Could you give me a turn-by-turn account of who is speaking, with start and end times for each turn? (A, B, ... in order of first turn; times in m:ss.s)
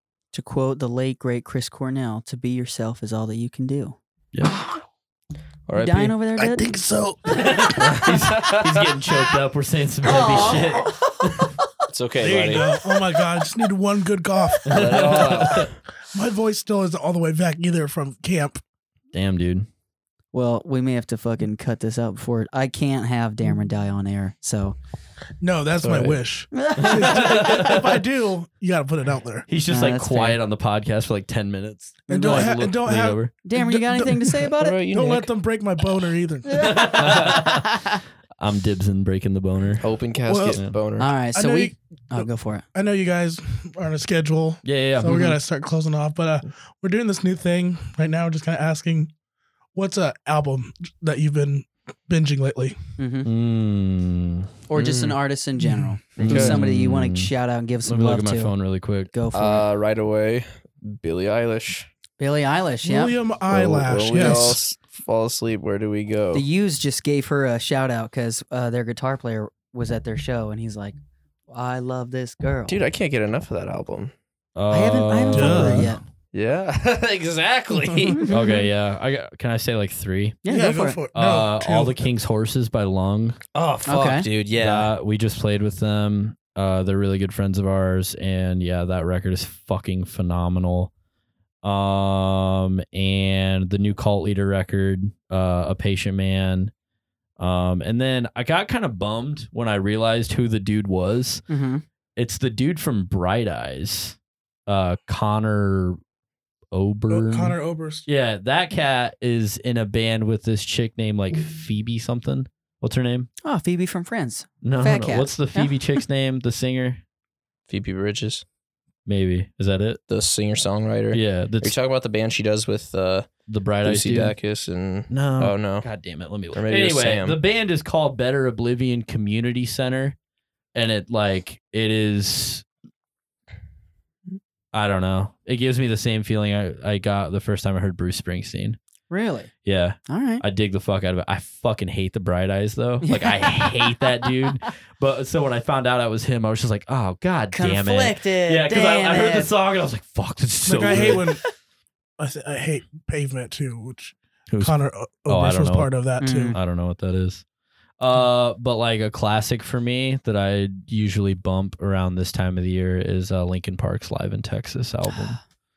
0:00.3-0:04.0 A
0:04.3-0:04.6 B
0:05.7-0:06.2 C
0:05.7-0:06.7 A
0:06.4-0:08.1 D
0:07.3-0:11.5 B
0:07.8-0:08.9 C
0:10.1-0:11.2 A
0:11.9-0:12.7 C
0:12.2-0:18.6 D
0:14.7-0:15.7 B
0:14.7-0:15.8 C
0:19.1-0:19.7 B
0:20.3-0:24.8 A
0:25.4-0:29.5 D
0:25.8-0:26.2 C
0:26.5-0:27.6 A
0:26.8-0:28.0 B
0:29.5-0:33.3 B
0:29.7-0:30.4 A
0:32.1-0:32.6 A
0:32.1-0:36.9 D
0:33.4-0:34.8 A
0:34.6-0:35.3 C
0:36.4-0:38.0 A
0:36.6-0:37.7 B
0:38.4-0:39.9 B
0:39.8-0:41.1 C
0:40.3-0:40.6 D
0:41.0-0:42.6 A
0:41.3-0:49.1 D
0:44.6-0:45.2 B
0:45.1-0:45.4 A
0:49.8-0:52.8 D
0:53.0-0:53.3 A
0:53.2-0:54.5 B
0:54.7-0:58.5 A
0:54.7-0:55.2 C
0:55.6-0:56.0 D
0:56.2-0:56.6 C
0:56.2-0:57.3 B
0:57.8-0:59.1 B
0:59.1-0:59.7 A
0:59.3-1:01.9 C
1:02.2-1:03.2 A
1:02.8-1:04.6 D
1:03.5-1:06.4 C
1:04.2-1:04.5 A
1:06.3-1:11.0 A
1:11.5-1:12.8 A
1:12.7-1:14.1 C
1:14.6-1:15.9 B
1:14.7-1:16.0 A
1:15.3-1:15.9 D
1:16.3-1:18.2 C
1:18.1-1:18.6 A
1:18.3-1:20.4 B
1:20.4-1:21.0 A
1:20.5-1:22.0 D
1:21.1-1:23.4 B
1:23.5-1:24.9 C
1:23.9-1:24.3 A
1:24.5-1:30.9 B
1:31.6-1:36.7 B
1:37.4-1:41.4 B
1:41.5-1:41.8 A
1:42.2-1:46.0 B
1:46.7-1:53.3 B
1:47.1-1:48.1 D
1:53.4-1:56.0 A
1:54.6-1:57.0 B
1:57.7-1:58.4 C
1:59.1-2:00.0 B
2:00.1-2:03.3 C
2:01.1-2:01.8 B
2:03.5-2:04.4 B
2:03.8-2:05.9 C
2:05.1-2:10.2 B
2:06.5-2:07.4 C
2:10.8-2:12.6 B
2:14.7-2:18.8 B
2:19.1-2:19.5 A
2:19.6-2:31.4 B
2:20.1-2:20.4 A
2:23.0-2:24.3 A
2:27.5-2:29.5 A
2:30.7-2:31.4 D
2:30.8-2:31.5 A
2:32.2-2:36.6 D
2:34.5-2:35.9 B
2:36.2-2:36.6 A
2:36.5-2:37.4 B
2:38.0-2:45.4 B
2:45.1-2:45.4 A